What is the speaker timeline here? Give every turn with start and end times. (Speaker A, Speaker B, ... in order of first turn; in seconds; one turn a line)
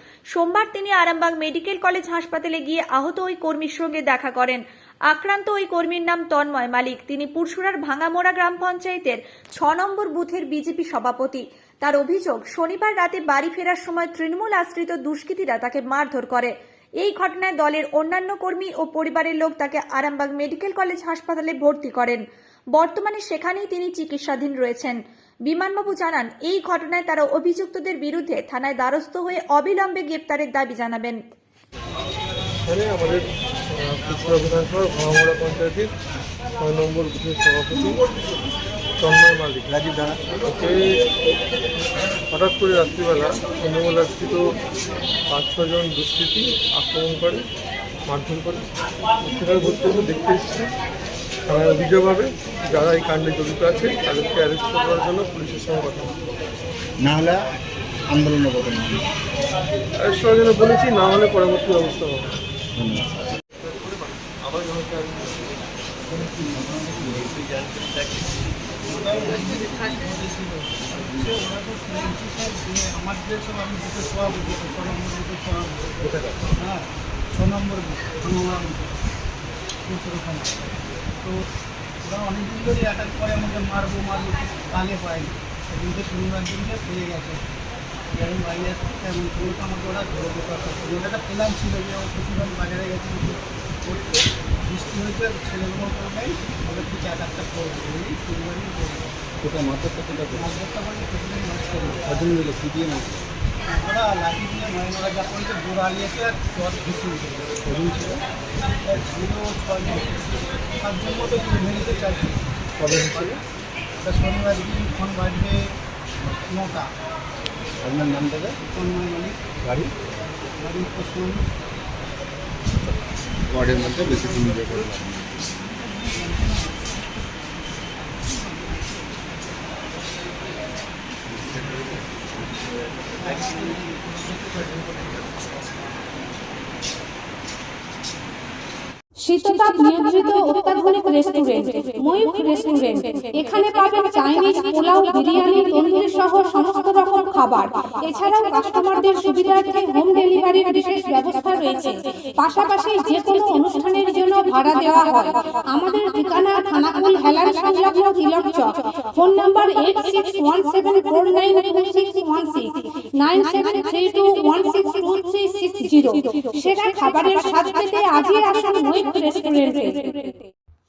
Speaker A: 0.3-16.5
Speaker A: 17.0-22.2
Speaker A: 22.8-25.0
Speaker A: 25.5-31.2
Speaker B: 32.6-35.9
Speaker B: 36.6-38.0
Speaker B: 39.0-39.7
Speaker C: 39.7-40.2
Speaker B: 40.4-41.0
Speaker B: 42.3-44.5
Speaker B: 45.3-47.4
Speaker B: 48.1-48.7
Speaker B: 49.2-50.7
Speaker B: 51.5-56.1
Speaker C: 57.0-57.4
Speaker C: 58.1-59.0
Speaker B: 60.0-62.3
Speaker C: 62.8-63.3
Speaker B: 63.6-65.5
Speaker C: 66.1-67.5
Speaker D: 68.9-75.9
Speaker D: 76.6-79.0
Speaker D: 79.8-80.5
Speaker D: 82.0-87.4
Speaker D: 88.1-99.0
Speaker C: 99.4-100.5
Speaker D: 100.3-102.0
Speaker C: 102.0-103.3
Speaker D: 103.7-107.6
Speaker C: 107.7-108.2
Speaker D: 108.8-112.4
Speaker C: 112.8-113.3
Speaker B: 112.8-113.4
Speaker D: 114.0-115.7
Speaker D: 116.4-116.9
Speaker C: 117.8-118.6
Speaker D: 118.6-119.4
Speaker C: 119.6-119.9
Speaker D: 120.6-121.4
Speaker C: 123.5-125.5
Speaker D: 126.0-126.9
Speaker D: 133.2-135.3
Speaker E: 139.2-170.5